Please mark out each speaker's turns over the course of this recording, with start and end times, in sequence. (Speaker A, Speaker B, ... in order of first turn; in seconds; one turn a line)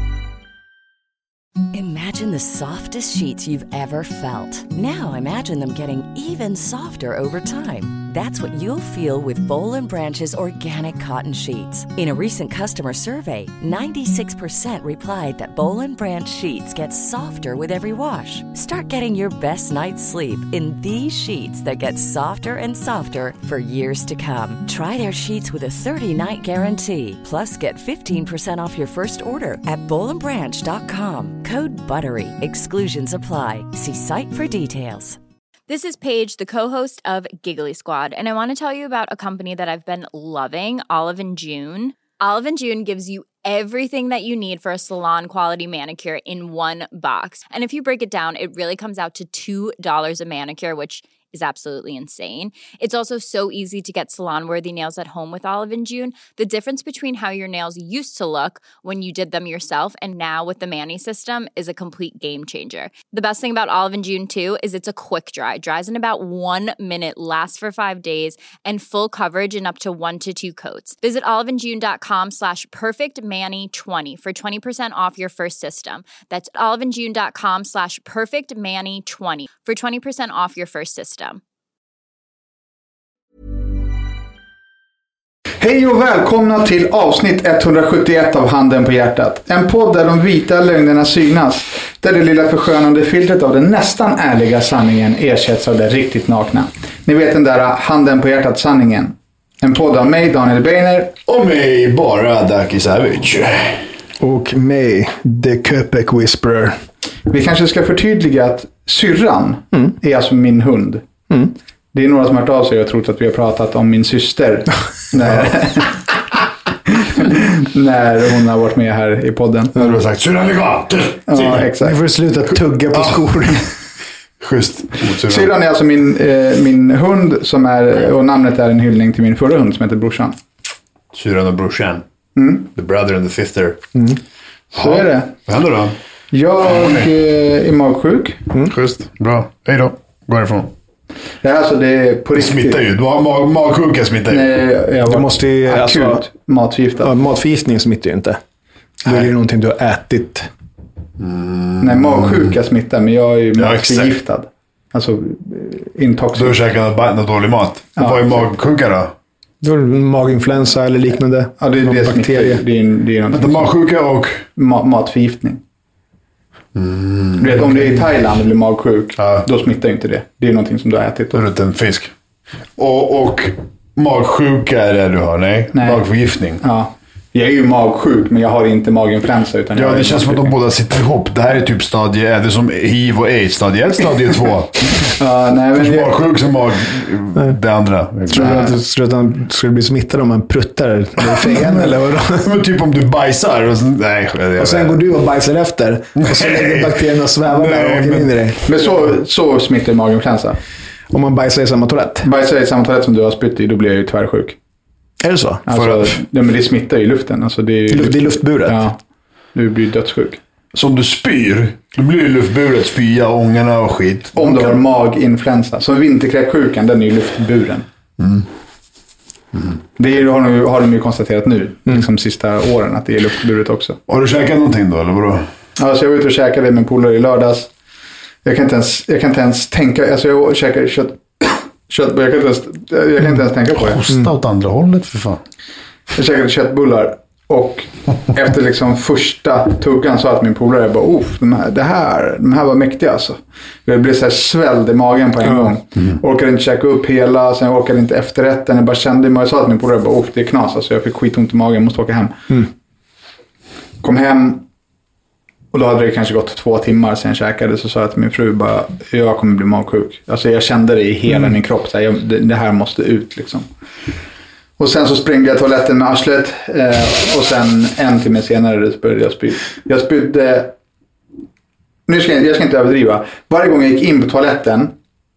Speaker A: 1.7-35.2
Speaker B: 35.7-81.4
Speaker C: 85.6-101.1
Speaker D: 101.2-103.8
Speaker E: 104.2-106.8
Speaker C: 107.3-111.0
Speaker C: 111.9-116.0
Speaker C: 116.9-119.8
Speaker D: 119.8-121.7
Speaker C: 121.3-122.0
Speaker E: 121.8-123.7
Speaker D: 122.9-123.3
Speaker D: 124.4-125.5
Speaker C: 125.2-130.3
Speaker D: 131.1-132.0
Speaker C: 132.3-132.7
Speaker D: 132.7-133.8
Speaker C: 134.7-135.3
Speaker D: 134.8-136.0
Speaker C: 136.3-138.5
Speaker D: 136.6-137.1
Speaker D: 138.6-140.7
Speaker C: 141.4-142.8
Speaker D: 142.4-144.5
Speaker C: 144.3-147.1
Speaker E: 145.0-146.3
Speaker E: 147.0-148.4
Speaker E: 149.0-150.5
Speaker D: 151.2-152.6
Speaker C: 151.8-156.6
Speaker D: 153.6-154.1
Speaker D: 156.3-159.1
Speaker C: 158.0-158.5
Speaker E: 159.6-162.6
Speaker C: 161.6-163.7
Speaker D: 163.3-164.4
Speaker C: 164.5-165.6
Speaker D: 166.7-168.0
Speaker C: 167.4-171.4
Speaker D: 169.2-169.4
Speaker D: 171.3-172.1
Speaker D: 172.8-176.6
Speaker C: 175.7-176.0
Speaker C: 176.6-180.5
Speaker D: 179.7-185.1
Speaker C: 185.2-186.1
Speaker D: 185.7-188.7
Speaker E: 188.3-192.5
Speaker C: 188.3-188.7
Speaker D: 191.4-195.0
Speaker E: 194.6-198.6
Speaker D: 196.2-198.3
Speaker C: 198.7-200.6
Speaker E: 201.1-202.3
Speaker C: 202.2-204.6
Speaker E: 205.2-205.7
Speaker C: 205.7-209.0
Speaker D: 205.8-206.1
Speaker E: 207.9-208.8
Speaker C: 209.5-210.4
Speaker D: 210.7-214.3
Speaker C: 214.3-217.9
Speaker D: 218.2-218.4
Speaker C: 220.0-224.0
Speaker D: 224.1-225.4
Speaker C: 225.8-227.7
Speaker C: 228.4-234.0
Speaker D: 233.7-235.4
Speaker C: 236.1-252.7
Speaker C: 254.0-254.6
Speaker C: 255.7-263.7
Speaker C: 264.8-270.7
Speaker C: 272.1-274.9